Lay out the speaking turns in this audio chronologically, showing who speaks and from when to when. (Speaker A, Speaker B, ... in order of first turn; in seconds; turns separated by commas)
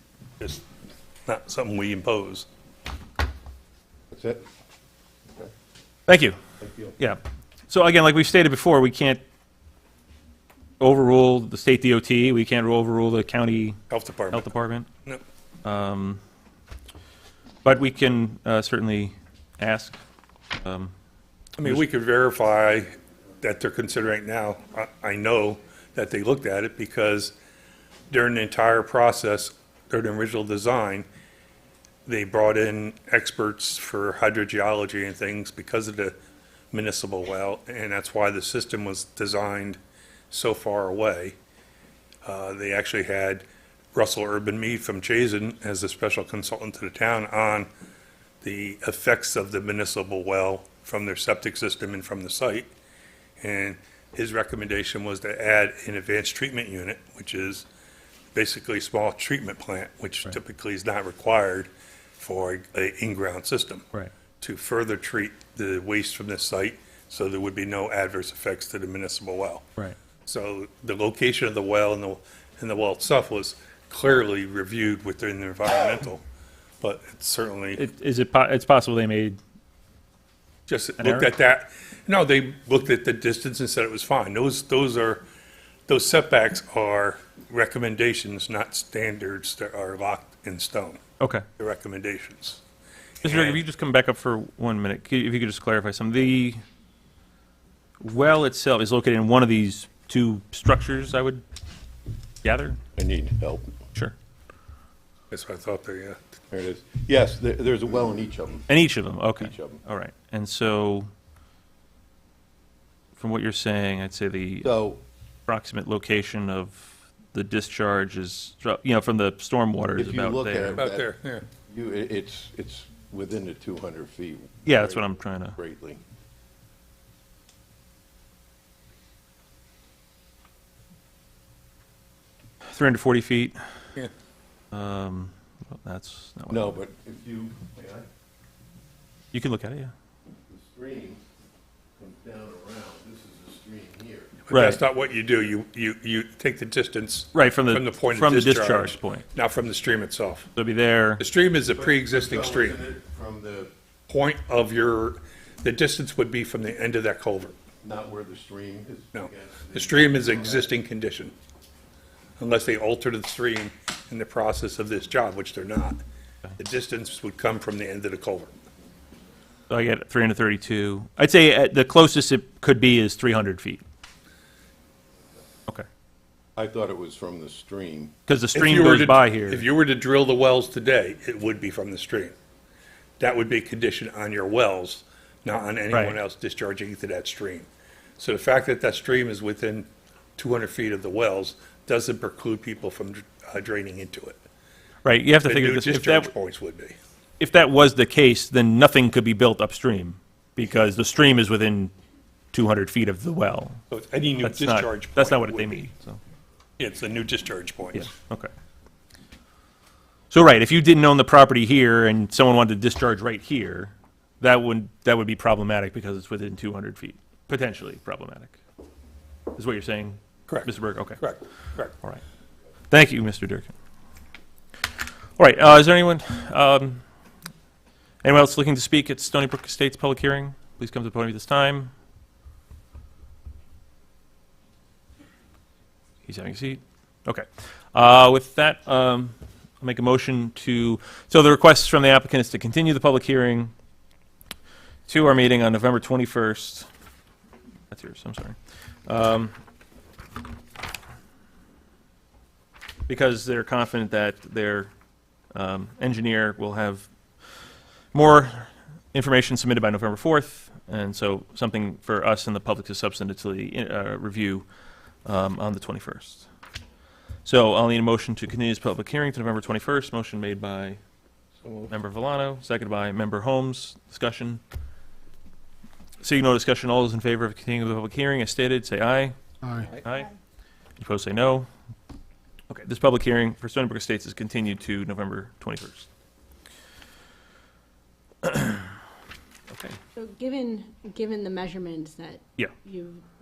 Speaker A: 0.4-0.6, Speaker A: 1.3-2.5, Speaker B: 4.1-4.4, Speaker C: 6.1-6.4, Speaker B: 6.6-7.0, Speaker C: 7.0-9.2, Speaker C: 10.8-13.8, Speaker A: 13.9-14.5, Speaker C: 14.3-14.9, Speaker C: 15.6-16.2, Speaker C: 17.6-20.0, Speaker C: 20.5-20.9, Speaker A: 21.6-27.4, Speaker A: 28.1-31.1, Speaker A: 32.1-36.1, Speaker A: 36.7-39.8, Speaker A: 40.3-41.4, Speaker A: 42.2-47.7, Speaker A: 48.4-52.7, Speaker A: 53.4-57.7, Speaker A: 58.3-63.9, Speaker A: 64.4-69.7, Speaker A: 70.2-76.2, Speaker A: 76.8-77.8, Speaker C: 77.8-79.4, Speaker A: 80.7-85.2, Speaker C: 81.0-81.3, Speaker A: 85.9-91.0, Speaker C: 91.2-91.5, Speaker A: 91.6-92.6, Speaker A: 93.2-93.6, Speaker C: 93.2-96.6, Speaker C: 98.0-101.4, Speaker C: 102.4-102.8, Speaker B: 103.0-103.7, Speaker A: 105.3-106.2, Speaker B: 106.5-108.7, Speaker C: 108.7-111.1, Speaker B: 109.4-109.8, Speaker C: 113.2-114.7, Speaker B: 114.6-115.0, Speaker C: 115.5-120.8, Speaker B: 120.0-121.1, Speaker A: 120.8-121.5, Speaker B: 121.7-126.0, Speaker C: 124.7-125.6, Speaker C: 132.7-133.6, Speaker C: 134.7-136.8, Speaker B: 136.5-138.1, Speaker C: 139.3-139.9, Speaker B: 140.5-141.2, Speaker B: 142.0-144.4, Speaker A: 144.5-150.5, Speaker C: 144.5-144.8, Speaker C: 147.3-149.2, Speaker C: 150.6-151.2, Speaker A: 151.2-152.8, Speaker B: 151.7-153.7, Speaker A: 154.1-157.5, Speaker B: 157.8-160.7, Speaker A: 159.1-161.3, Speaker A: 162.4-166.0, Speaker A: 166.6-168.5, Speaker C: 169.7-173.8, Speaker B: 176.6-178.1, Speaker C: 178.3-179.7, Speaker A: 178.6-182.3, Speaker A: 183.2-194.4, Speaker C: 185.9-186.2, Speaker C: 195.0-196.3, Speaker A: 195.4-197.0, Speaker C: 197.4-201.9, Speaker C: 202.5-203.8, Speaker A: 203.9-205.8, Speaker C: 204.4-206.2, Speaker A: 206.8-208.1, Speaker C: 207.9-208.5, Speaker C: 210.3-218.6, Speaker C: 219.6-221.2, Speaker A: 220.5-221.9, Speaker C: 222.9-223.7, Speaker C: 225.4-227.0, Speaker C: 228.2-231.9, Speaker C: 236.3-243.7, Speaker C: 245.1-246.9, Speaker C: 247.9-249.5, Speaker C: 253.1-254.9, Speaker C: 255.5-257.1, Speaker C: 258.1-264.7, Speaker C: 265.2-266.5, Speaker C: 267.4-271.0, Speaker C: 271.9-274.6, Speaker C: 276.2-280.3, Speaker C: 281.0-281.7, Speaker C: 282.7-286.1, Speaker C: 288.4-288.9, Speaker C: 289.7-290.0, Speaker D: 290.1-293.3